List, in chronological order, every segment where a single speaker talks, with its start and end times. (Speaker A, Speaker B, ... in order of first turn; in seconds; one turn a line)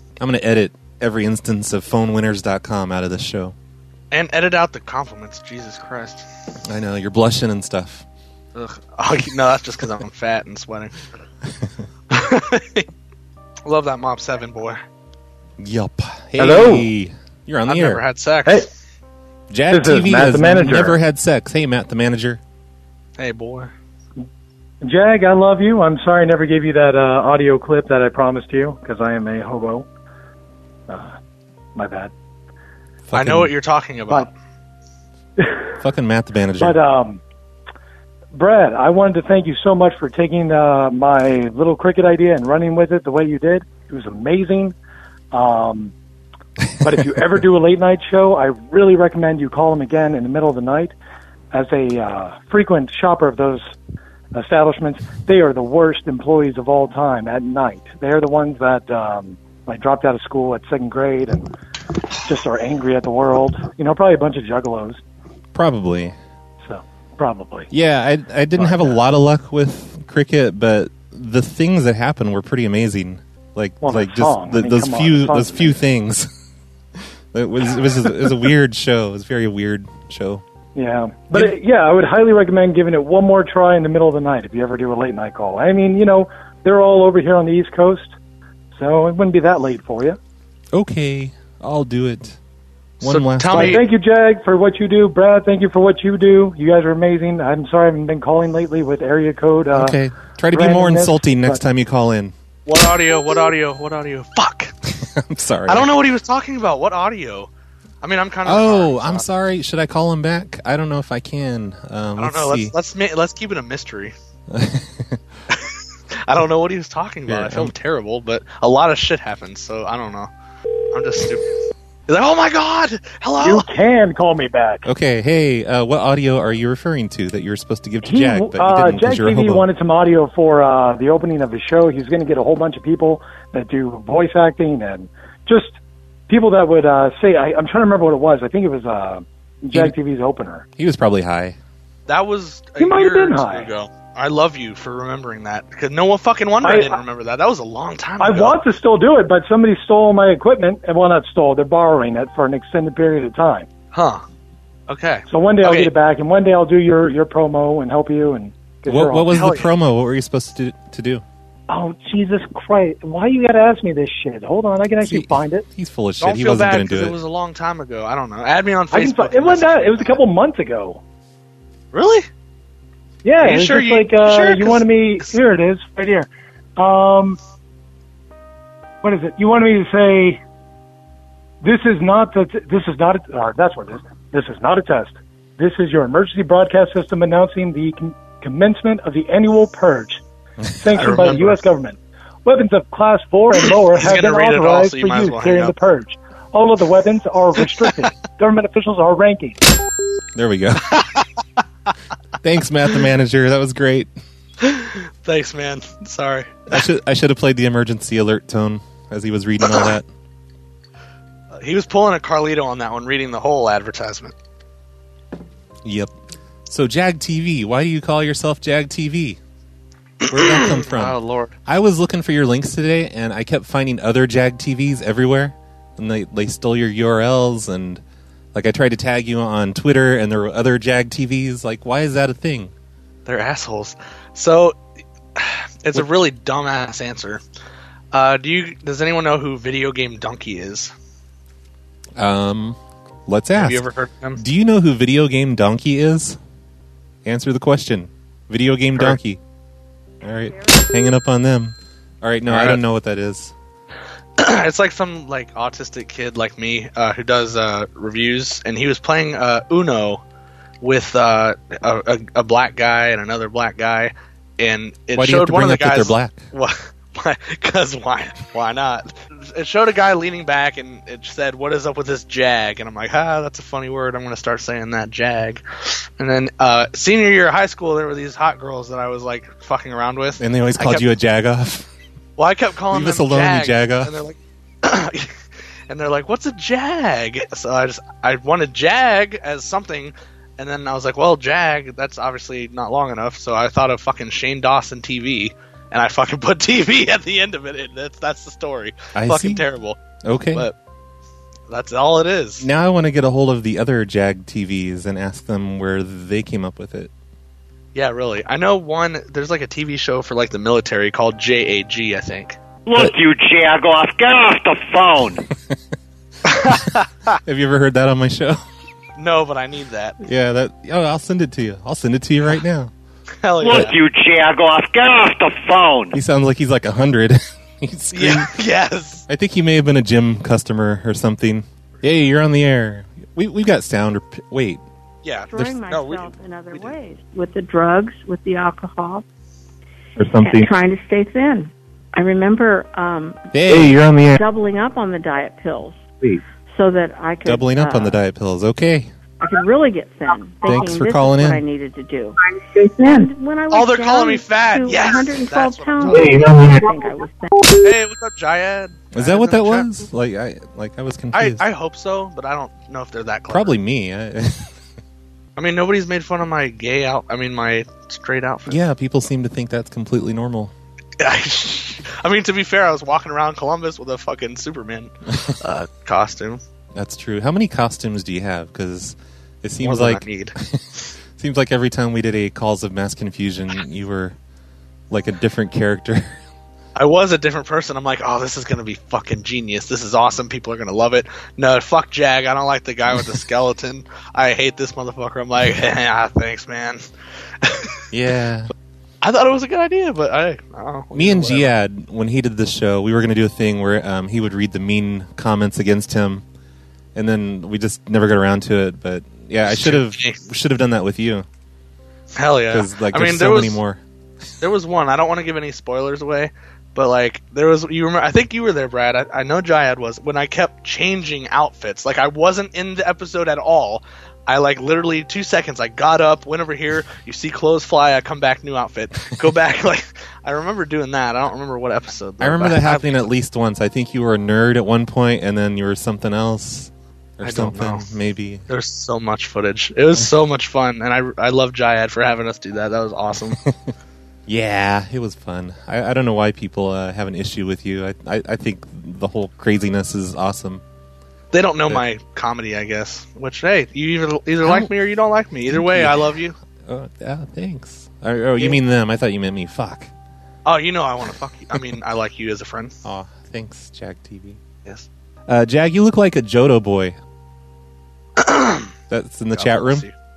Speaker A: 0.2-3.5
Speaker B: 4.1-6.3
Speaker A: 6.7-8.1
Speaker B: 8.6-10.9
Speaker B: 12.1-12.9
Speaker B: 13.7-14.8
Speaker A: 15.6-18.0
Speaker C: 16.4-16.9
Speaker B: 17.7-18.7
Speaker A: 19.5-22.4
Speaker C: 19.7-21.0
Speaker B: 23.2-23.7
Speaker C: 24.8-29.9
Speaker C: 30.9-31.2
Speaker C: 31.8-32.1
Speaker A: 33.1-33.5
Speaker B: 33.1-34.3
Speaker A: 35.8-36.8
Speaker C: 36.6-37.2
Speaker C: 38.3-44.8
Speaker C: 45.3-45.9
Speaker C: 46.8-50.9
Speaker C: 51.5-53.7
Speaker C: 54.3-61.5
Speaker C: 62.2-65.0
Speaker A: 65.5-66.2
Speaker C: 66.6-67.7
Speaker A: 67.7-76.3
Speaker C: 68.6-68.9
Speaker C: 73.8-75.8
Speaker A: 77.3-80.4
Speaker C: 80.8-88.2
Speaker C: 88.7-90.2
Speaker A: 90.7-92.4
Speaker A: 93.0-93.8
Speaker B: 93.0-93.8
Speaker C: 93.5-100.0
Speaker A: 99.7-102.3
Speaker C: 100.5-101.6
Speaker B: 102.7-104.8
Speaker A: 105.0-105.9
Speaker B: 105.7-107.5
Speaker B: 108.0-109.2
Speaker A: 108.5-112.7
Speaker B: 112.2-114.1
Speaker A: 114.5-115.2
Speaker B: 115.5-120.3
Speaker A: 117.3-117.7
Speaker B: 120.9-121.5
Speaker B: 122.1-123.7
Speaker C: 123.4-124.9
Speaker A: 124.9-129.7
Speaker C: 128.0-135.8
Speaker C: 136.3-140.7
Speaker A: 140.8-141.6
Speaker B: 142.1-148.6
Speaker C: 142.8-143.7
Speaker C: 146.6-147.0
Speaker C: 148.2-153.7
Speaker B: 153.9-154.2
Speaker B: 154.9-155.9
Speaker C: 155.3-159.4
Speaker A: 158.9-161.2
Speaker B: 159.3-159.7
Speaker C: 161.7-165.7
Speaker A: 165.0-167.2
Speaker B: 166.2-170.2
Speaker C: 168.9-171.0
Speaker B: 171.9-172.3
Speaker C: 173.2-177.4
Speaker B: 173.4-174.8
Speaker C: 179.0-180.4
Speaker C: 181.6-190.2
Speaker C: 190.8-199.6
Speaker B: 191.0-191.6
Speaker B: 193.9-195.8
Speaker A: 200.3-201.0
Speaker A: 202.4-204.1
Speaker B: 204.6-206.8
Speaker A: 206.7-210.1
Speaker B: 211.6-214.3
Speaker A: 215.8-216.1
Speaker A: 216.7-219.4
Speaker A: 220.3-228.0
Speaker B: 220.3-221.5
Speaker A: 228.6-232.7
Speaker B: 233.3-234.8
Speaker B: 235.4-237.4
Speaker B: 238.1-240.9
Speaker A: 242.2-243.8
Speaker B: 243.6-244.4
Speaker A: 244.4-246.4
Speaker A: 247.2-249.4
Speaker A: 250.2-253.5
Speaker B: 252.5-252.8
Speaker B: 254.4-260.2
Speaker B: 260.8-281.1
Speaker A: 265.2-266.4
Speaker A: 280.4-281.9
Speaker B: 282.4-285.4
Speaker A: 282.9-284.1
Speaker B: 285.9-300.8
Speaker A: 299.1-299.6
Speaker A: 300.2-300.6
Speaker B: 301.7-302.7
Speaker A: 302.6-307.1
Speaker B: 307.9-312.6
Speaker D: 312.9-315.4
Speaker B: 316.5-317.4
Speaker A: 317.4-318.6
Speaker B: 319.2-320.2
Speaker A: 320.2-322.9
Speaker B: 323.4-324.0
Speaker D: 323.6-326.2
Speaker A: 326.1-328.5
Speaker B: 328.1-329.2
Speaker A: 329.3-334.8
Speaker B: 335.2-337.0
Speaker E: 335.5-339.2
Speaker A: 340.2-340.7
Speaker E: 340.4-343.5
Speaker A: 343.5-344.4
Speaker E: 344.4-346.0
Speaker E: 346.7-348.2
Speaker A: 347.4-349.1
Speaker E: 349.4-357.7
Speaker A: 350.6-351.6
Speaker B: 353.7-356.4
Speaker B: 357.8-360.0
Speaker A: 359.1-361.6
Speaker B: 361.3-363.8
Speaker A: 363.5-364.7
Speaker B: 365.6-368.8
Speaker A: 368.7-370.7
Speaker B: 371.2-376.6
Speaker A: 376.9-380.9
Speaker B: 379.8-380.6
Speaker A: 381.4-384.4
Speaker A: 385.1-386.4
Speaker B: 387.0-397.0
Speaker B: 397.6-398.0
Speaker A: 398.1-398.7
Speaker B: 399.2-401.7
Speaker A: 401.1-406.4
Speaker A: 407.1-411.5
Speaker B: 409.7-410.4
Speaker B: 412.4-413.8
Speaker A: 412.7-414.0
Speaker B: 414.6-433.3
Speaker A: 432.4-438.6
Speaker B: 437.4-438.1
Speaker B: 438.7-443.6
Speaker A: 444.5-450.8
Speaker B: 451.5-456.6
Speaker A: 454.6-454.9
Speaker A: 455.7-456.3
Speaker A: 456.9-460.1
Speaker B: 460.7-462.9
Speaker A: 463.0-464.6
Speaker A: 465.5-467.2
Speaker B: 468.4-468.9
Speaker A: 469.1-470.1
Speaker B: 469.5-470.1